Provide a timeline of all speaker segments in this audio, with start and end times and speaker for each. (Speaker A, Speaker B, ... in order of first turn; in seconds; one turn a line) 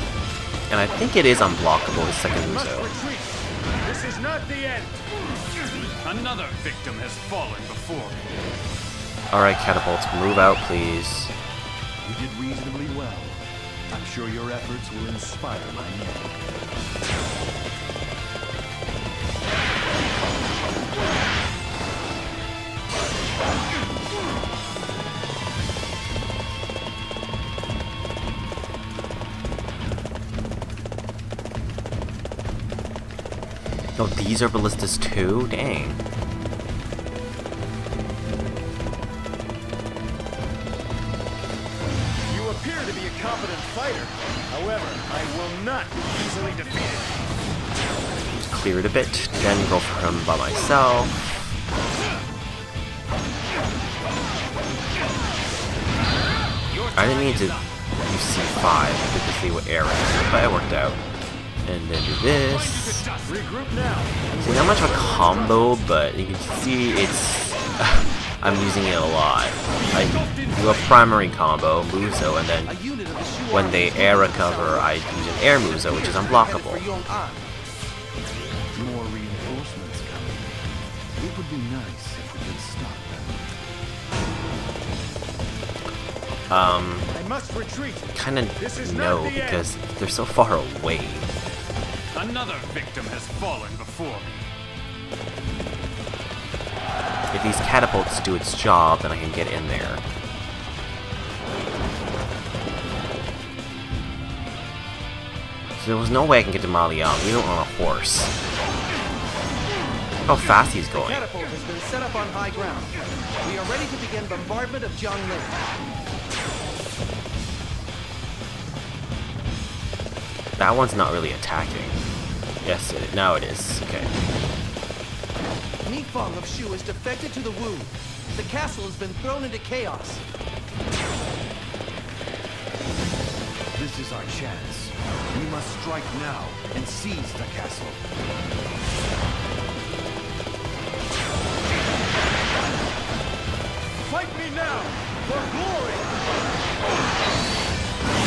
Speaker A: 0.7-2.9
Speaker B: 2.4-5.0
Speaker C: 6.0-8.3
Speaker A: 9.3-11.3
Speaker D: 12.0-16.4
Speaker A: 34.0-36.0
Speaker B: 42.2-47.1
Speaker A: 48.3-51.5
Speaker C: 56.7-57.7
Speaker A: 56.9-61.0
Speaker A: 61.6-63.1
Speaker C: 62.5-63.4
Speaker B: 63.2-65.8
Speaker A: 64.3-72.7
Speaker E: 72.7-77.5
Speaker A: 73.5-76.8
Speaker D: 78.7-80.6
Speaker D: 81.2-83.5
Speaker A: 86.5-87.1
Speaker B: 87.1-89.7
Speaker A: 88.1-91.3
Speaker C: 92.1-94.5
Speaker A: 97.3-100.0
Speaker A: 105.8-108.3
Speaker A: 110.2-111.2
Speaker E: 110.9-115.6
Speaker A: 120.6-122.0
Speaker A: 122.6-124.1
Speaker E: 125.8-130.2
Speaker D: 133.7-138.1
Speaker B: 143.9-146.1